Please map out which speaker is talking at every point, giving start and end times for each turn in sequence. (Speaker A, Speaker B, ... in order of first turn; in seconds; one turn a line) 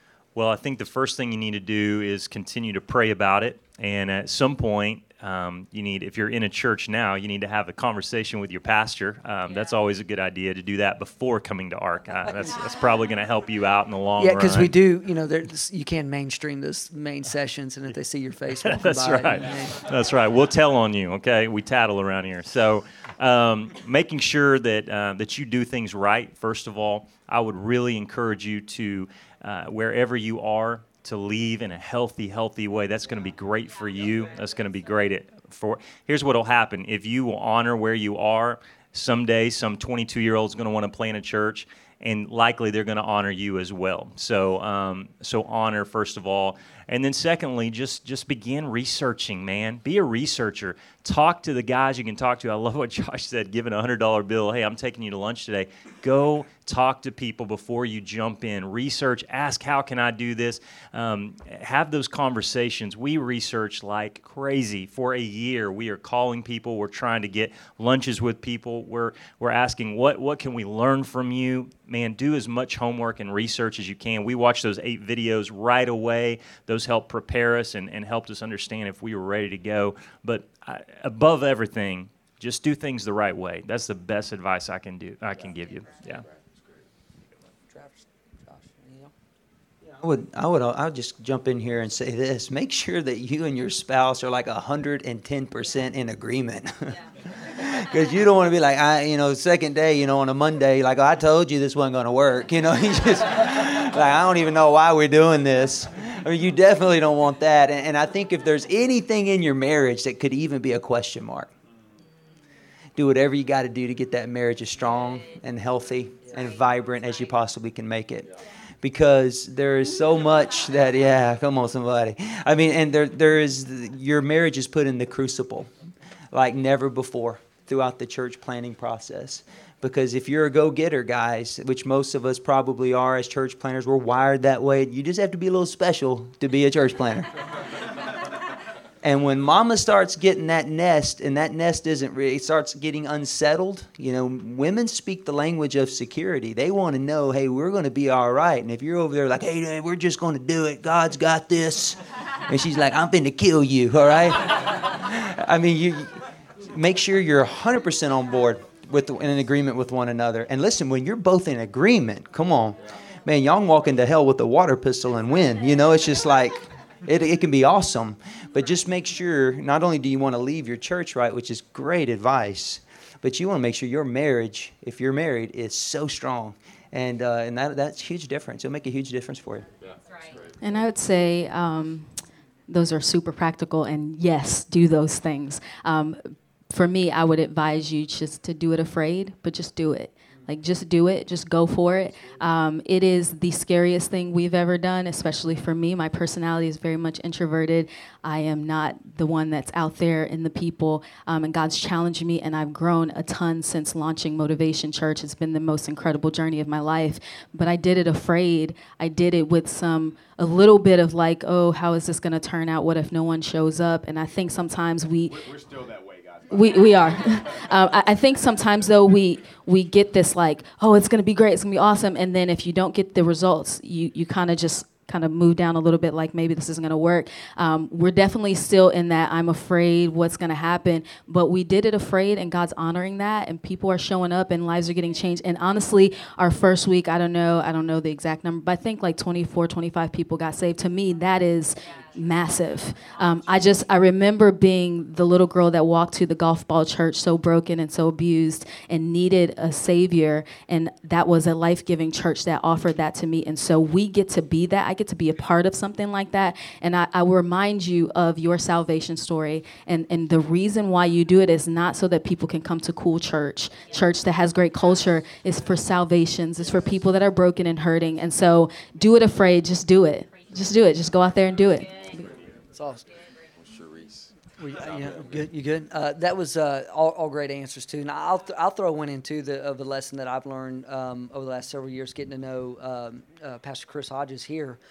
Speaker A: 0.3-14.7
Speaker B: 14.2-19.7
Speaker A: 18.6-86.2
Speaker B: 87.7-89.1
Speaker C: 90.0-111.5
Speaker C: 113.0-125.7
Speaker C: 126.3-137.3
Speaker C: 139.0-179.7
Speaker D: 180.6-182.1
Speaker D: 182.7-215.5
Speaker E: 215.3-217.6
Speaker D: 216.5-272.3
Speaker B: 272.8-273.0
Speaker E: 273.6-275.4
Speaker B: 274.6-284.8